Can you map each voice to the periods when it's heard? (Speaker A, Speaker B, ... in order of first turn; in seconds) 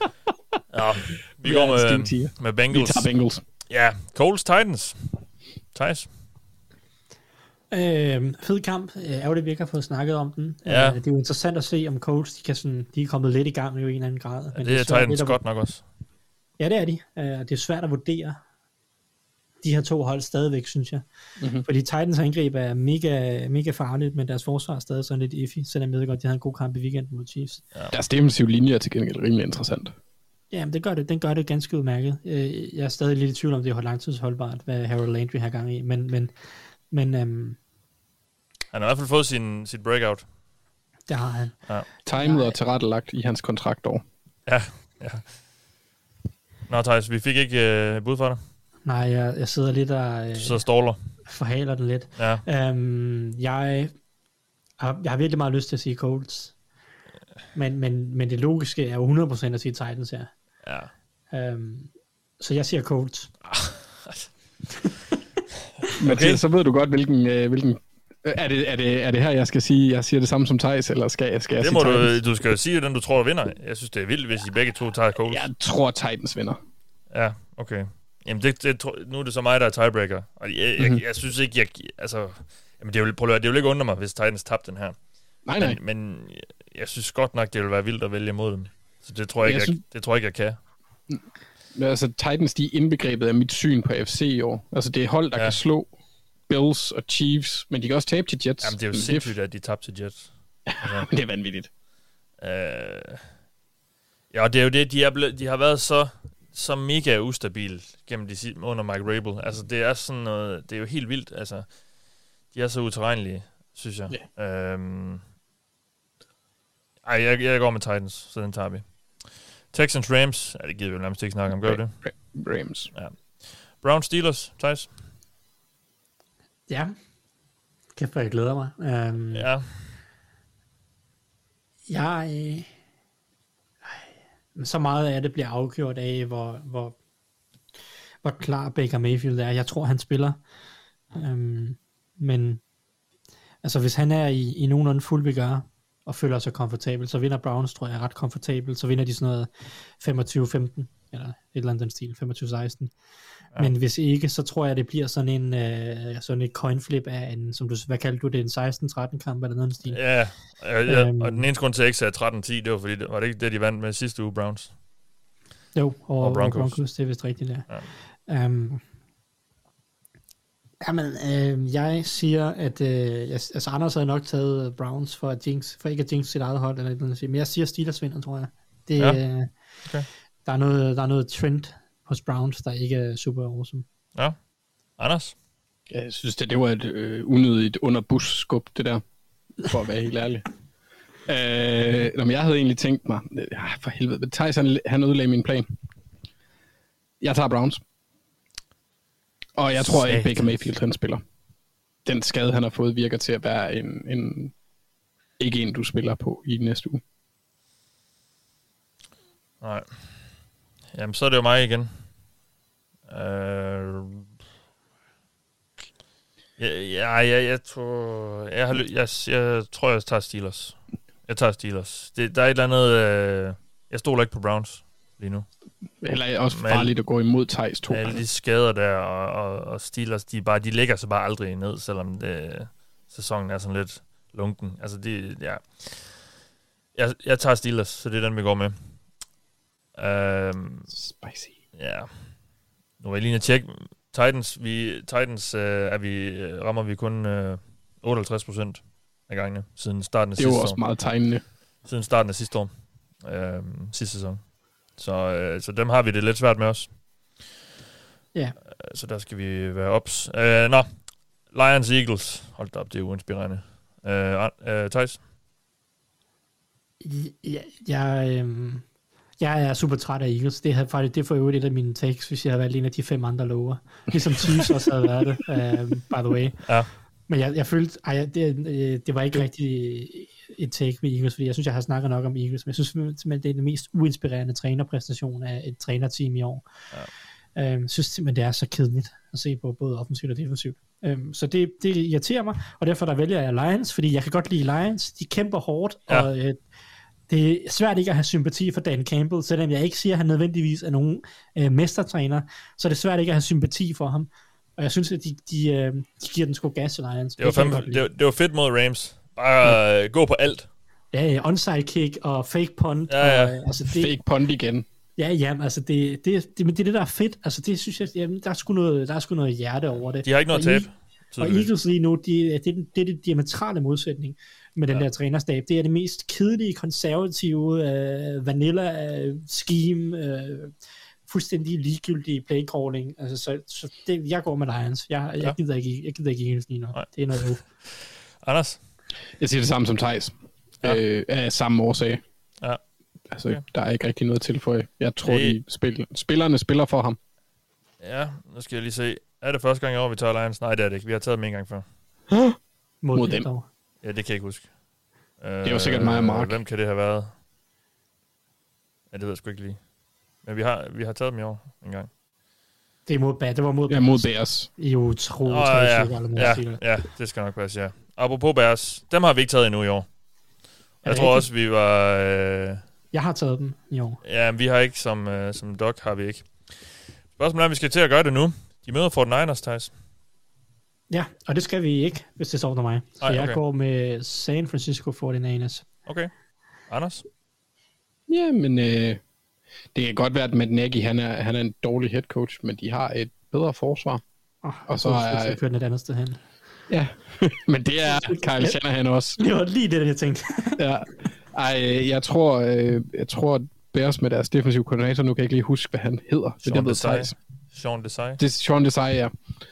Speaker A: 0.7-6.1, 10.7-11.0, 14.5-15.8, 38.7-40.3, 44.5-45.5, 46.7-48.4, 50.4-51.2, 52.2-52.4, 60.6-60.9, 63.5-64.3, 65.9-66.4, 71.6-75.5, 77.1-90.6, 95.3-95.6, 98.6-101.1, 102.4-103.3, 104.3-115.2, 117.0-122.3, 122.9-125.0, 129.3-129.9, 159.9-164.8, 166.2-167.9, 179.0-179.3, 184.2-184.4, 185.0-185.3, 209.6-210.4, 210.9-212.0, 213.1-214.3, 216.6-225.5, 226.5-226.9, 227.9-236.3, 236.9-239.1, 239.9-240.9, 241.8-242.5, 243.0-257.5, 258.8-265.2, 307.4-310.7, 313.1-313.6, 320.2-321.7, 336.9-338.8, 345.3-345.6, 348.0-351.9, 354.0-354.9, 355.4-357.4, 359.1-362.1, 365.5-370.2, 371.0-372.8, 374.2-379.9, 383.2-383.6, 386.1-387.3, 406.6-408.4
Speaker B: 1.4-3.4, 21.4-21.7, 27.9-29.9, 42.0-44.0, 66.0-72.2, 75.2-76.6, 85.5-85.8, 89.4-89.8, 91.8-95.9, 96.5-99.4, 100.7-101.7, 121.5-122.9, 185.9-189.1, 189.6-190.5, 191.3-195.7, 197.2-197.8, 199.6-201.2, 202.1-204.5, 205.4-207.0, 226.0-228.2, 240.9-241.6, 250.4-251.4, 313.9-314.9, 339.4-342.2, 343.3-347.2, 352.3-352.6, 353.1-353.5, 355.6-356.6, 363.9-364.7, 388.3-389.2, 389.9-394.2, 394.9-395.6, 396.9-399.4, 400.8-407.4, 408.4-409.4
Speaker C: 7.7-15.4, 16.6-18.4, 19.6-21.1, 21.6-27.6, 30.5-37.6, 41.1-42.6, 48.8-54.0, 54.8-56.5, 57.5-60.3, 61.3-63.3, 126.7-126.9, 128.0-129.5, 131.9-132.7, 133.9-137.0, 138.2-140.4, 141.1-142.6, 143.6-152.9, 153.5-161.5, 165.7-168.8, 170.8-179.5, 180.4-183.8, 199.8-200.4, 267.0-268.9, 269.4-286.6, 287.6-296.6, 297.3-308.1, 311.1-314.2, 315.2-330.7, 331.3-337.6, 353.0-353.7, 363.1-366.8, 371.0-371.5, 373.1-374.2, 381.1-385.9, 394.6-396.5, 398.1-398.8, 399.4-400.8